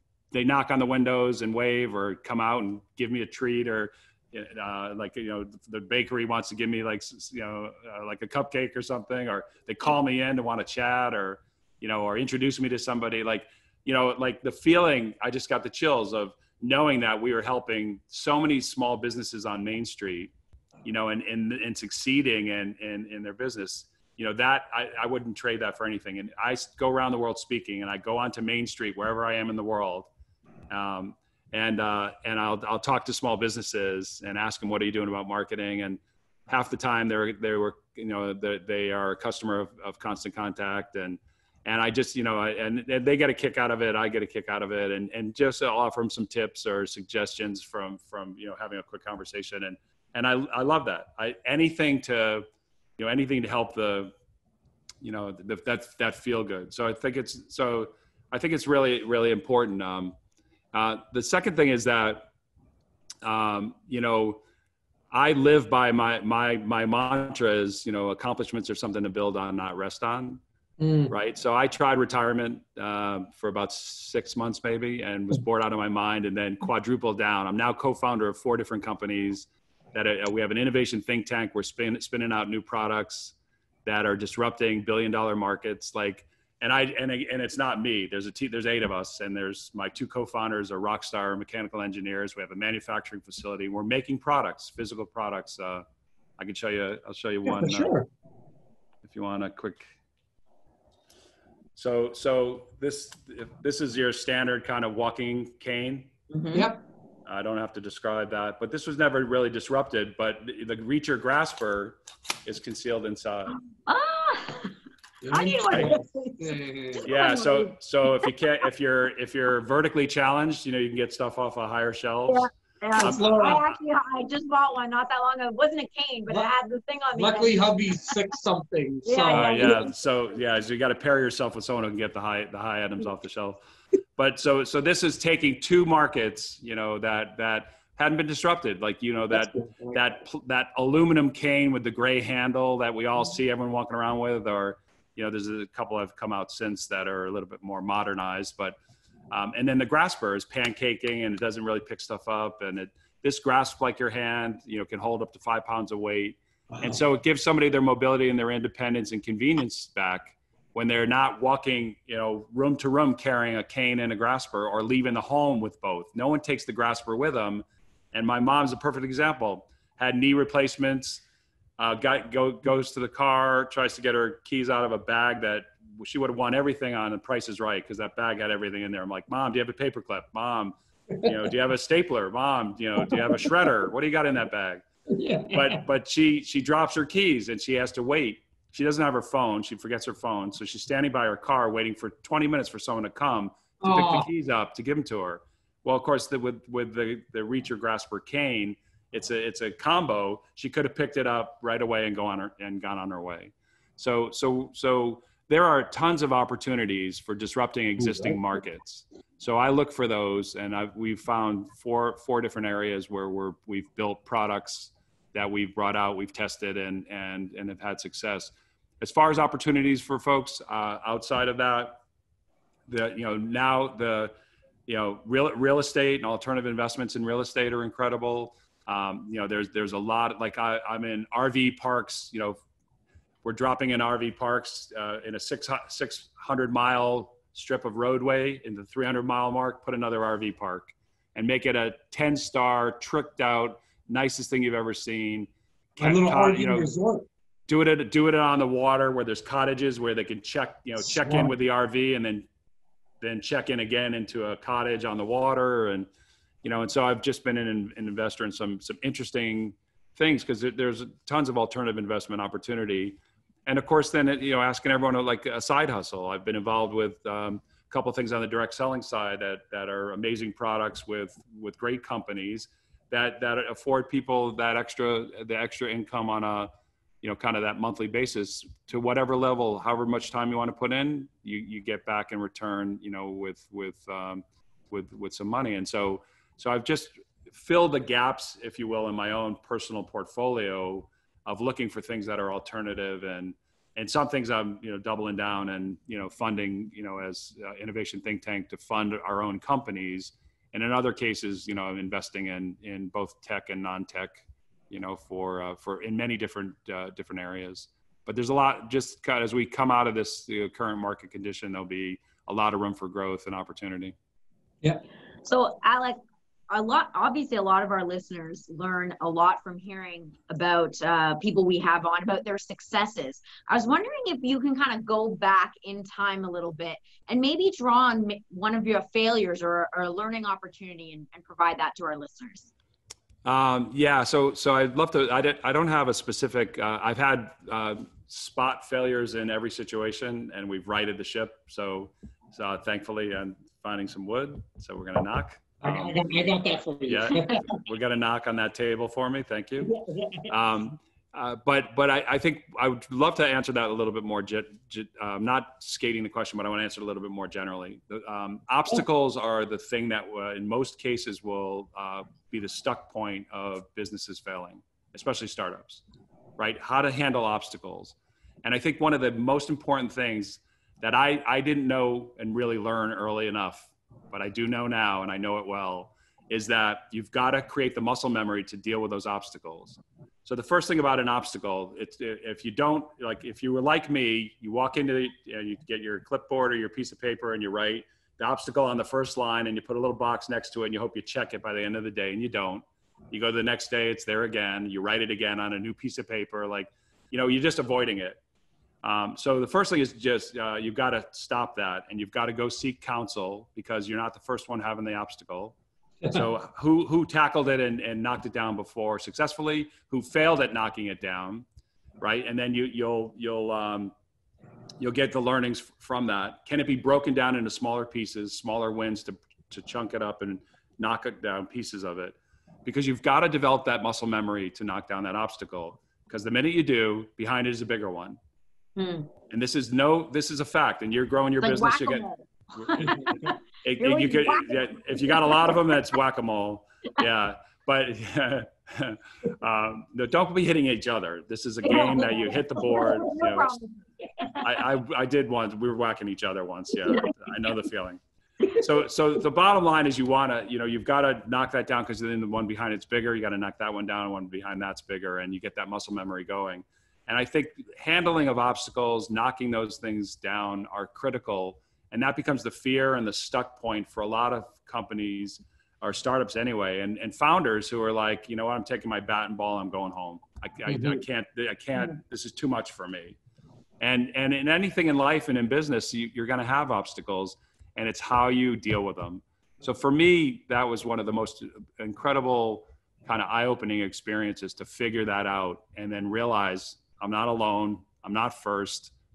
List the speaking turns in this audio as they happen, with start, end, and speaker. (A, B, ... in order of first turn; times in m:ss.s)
0:00.3-0:20.3 A
0:20.8-0:30.1 A
0:30.7-0:52.5 A
0:53.0-0:54.1 A
0:55.0-1:00.2 A
1:00.7-1:02.3 A
1:03.2-1:04.4 A
1:05.1-1:10.4 A
1:10.8-1:11.1 B
1:11.1-1:35.8 A
1:36.4-1:38.0 A
1:37.5-1:38.1 B
1:39.0-1:39.9 A
1:41.7-1:46.1 A
1:46.3-1:46.7 C
1:46.5-1:46.8 B
1:47.2-1:53.6 A
1:53.8-1:54.7 C
1:55.2-1:57.1 B
1:55.3-1:56.0 C
1:56.9-1:58.3 C
1:57.1-2:02.4 A
2:02.3-2:07.7 C
2:02.9-2:03.6 B
2:03.0-2:03.8 A
2:07.1-2:09.9 B
2:09.0-2:09.9 C
2:09.3-2:13.6 A
2:14.2-2:28.8 A
2:19.3-2:20.0 B
2:29.3-2:51.2 A
2:51.8-3:04.8 A
3:03.1-3:03.4 B
3:05.1-3:05.8 B
3:05.5-3:42.0 A
3:13.8-3:14.3 B
3:42.9-3:44.3 A
3:44.9-3:52.6 A
3:53.4-4:06.9 A
4:06.0-4:07.3 B
4:07.7-4:12.5 A
4:11.1-4:11.5 B
4:13.2-4:16.1 A
4:16.6-4:36.7 A
4:37.2-5:14.1 A
5:15.4-5:16.2 C
5:16.7-5:32.7 C
5:33.4-5:46.3 A
5:45.8-5:47.6 B
5:47.0-5:49.9 A
5:49.8-5:50.5 B
5:50.4-6:06.0 A
6:06.6-6:38.4 A
6:39.0-6:51.6 A
6:52.2-6:54.1 A
6:55.0-7:08.4 A
7:09.0-7:09.3 C
7:09.5-7:12.2 A
7:11.6-7:15.8 C
7:12.8-7:23.8 A
7:21.8-7:24.7 C
7:24.6-7:28.2 A
7:27.1-7:27.3 C
7:28.7-7:53.4 A
7:50.9-7:51.2 B
7:54.0-8:09.1 A